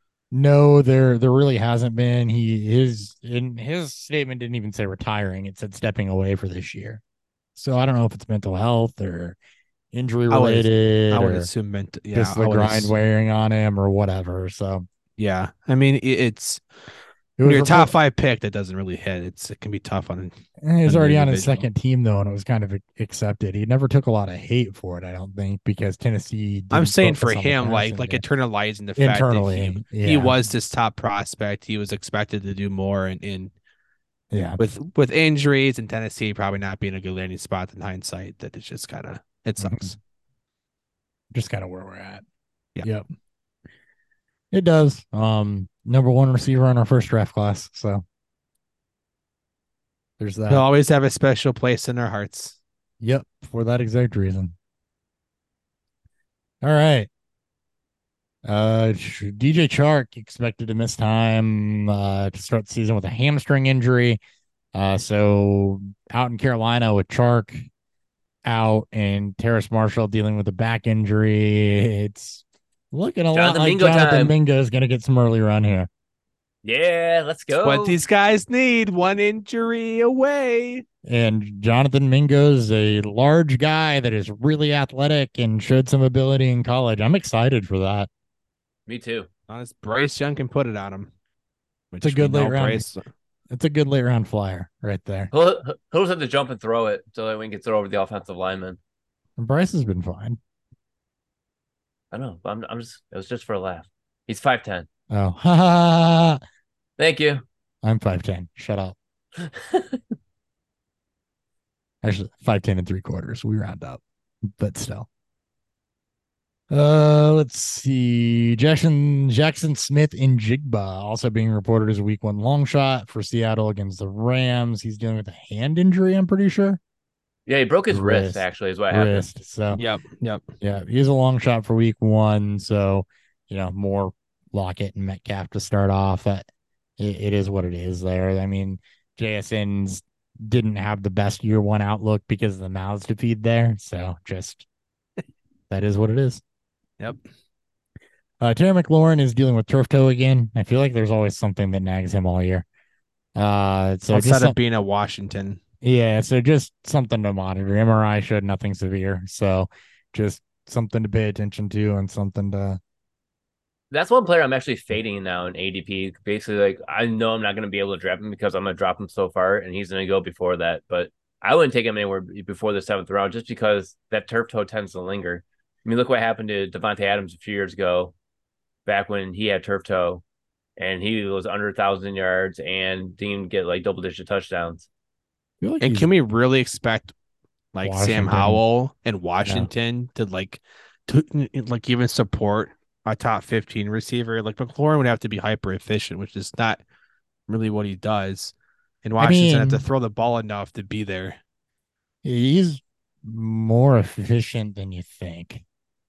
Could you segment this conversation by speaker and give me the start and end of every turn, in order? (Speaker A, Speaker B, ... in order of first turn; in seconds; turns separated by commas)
Speaker A: 0.3-7.0, Speaker A: 7.6-9.4, Speaker A: 9.9-11.5, Speaker B: 10.3-12.9, Speaker A: 12.1-14.9, Speaker B: 15.2-16.6, Speaker A: 17.4-17.9, Speaker B: 17.4-21.6, Speaker A: 20.6-28.2, Speaker B: 26.7-33.5, Speaker A: 29.0-30.3, Speaker A: 34.3-34.6, Speaker B: 34.6-40.0, Speaker A: 39.6-39.9, Speaker A: 41.3-42.2, Speaker A: 44.5-48.0, Speaker A: 50.2-50.6, Speaker B: 50.5-52.6, Speaker A: 53.0-54.5, Speaker A: 56.6-57.1, Speaker A: 58.5-64.2, Speaker A: 64.7-67.7, Speaker A: 68.5-75.9, Speaker C: 73.3-74.3, Speaker C: 76.6-78.0, Speaker B: 77.6-80.8, Speaker A: 81.0-88.1, Speaker C: 88.9-89.3, Speaker B: 89.5-91.1, Speaker B: 91.9-93.0, Speaker A: 92.0-92.8, Speaker A: 93.5-95.3, Speaker C: 95.3-98.8, Speaker A: 99.4-100.4, Speaker C: 102.1-104.9, Speaker A: 105.1-106.4, Speaker C: 107.0-107.4, Speaker A: 107.8-109.0, Speaker C: 109.4-110.0, Speaker A: 112.0-115.1, Speaker A: 116.7-126.8, Speaker C: 127.5-129.3, Speaker A: 127.9-129.8, Speaker B: 129.7-130.4, Speaker A: 130.6-144.7, Speaker A: 145.7-146.4, Speaker A: 148.4-152.6, Speaker A: 153.4-154.6, Speaker B: 154.1-155.6, Speaker A: 155.8-162.8, Speaker C: 163.9-178.1, Speaker C: 178.9-180.2, Speaker C: 180.8-184.8, Speaker A: 185.6-186.1, Speaker B: 185.8-187.1, Speaker B: 187.8-196.8, Speaker A: 187.8-188.6, Speaker B: 197.5-201.4, Speaker A: 199.2-199.8, Speaker A: 202.2-205.6